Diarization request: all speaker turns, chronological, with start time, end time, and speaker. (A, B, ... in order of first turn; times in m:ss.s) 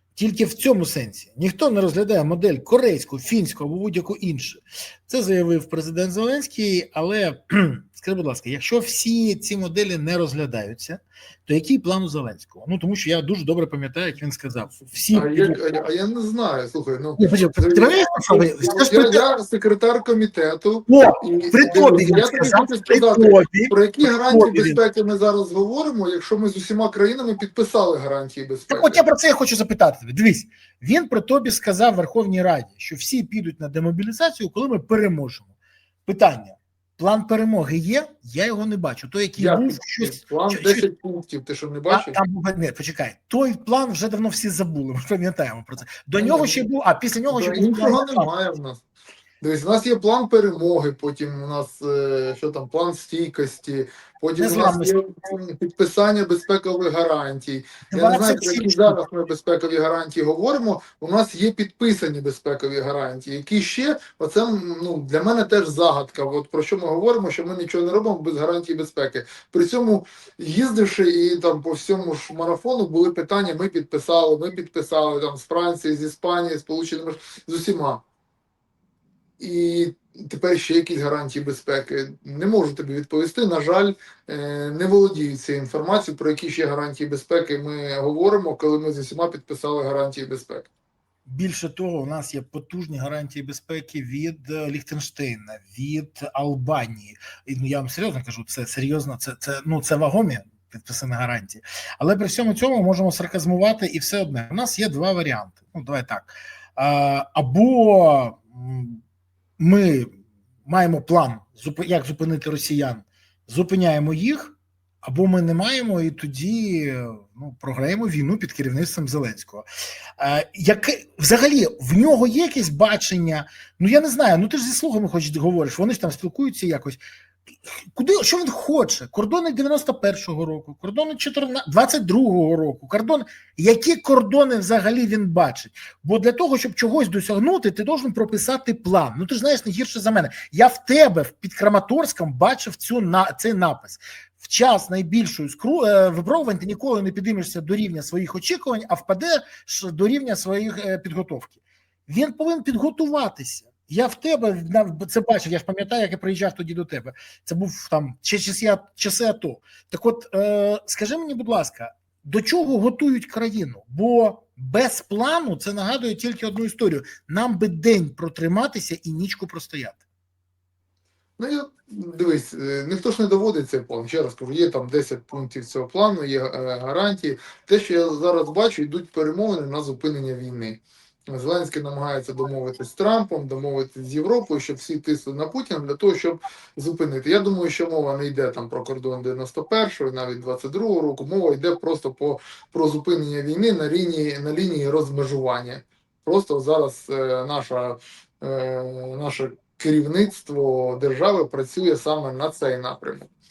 0:00.2-0:15.6 A
0:15.1-0:29.0 B
0:17.2-0:19.2 A
0:20.9-0:24.8 A
0:28.7-0:35.5 A
0:36.1-0:40.8 A
0:39.4-0:42.2 B
0:41.9-0:48.3 A
0:46.2-0:46.6 B
0:47.3-0:48.8 B
0:49.4-1:18.0 B
0:54.4-0:55.0 A
0:57.9-0:59.0 A
1:19.4-1:30.7 B
1:31.3-1:49.0 A
1:49.6-1:59.7 A
2:00.2-2:07.0 A
2:07.7-2:31.6 A
2:32.1-2:50.0 A
2:51.4-3:23.3 B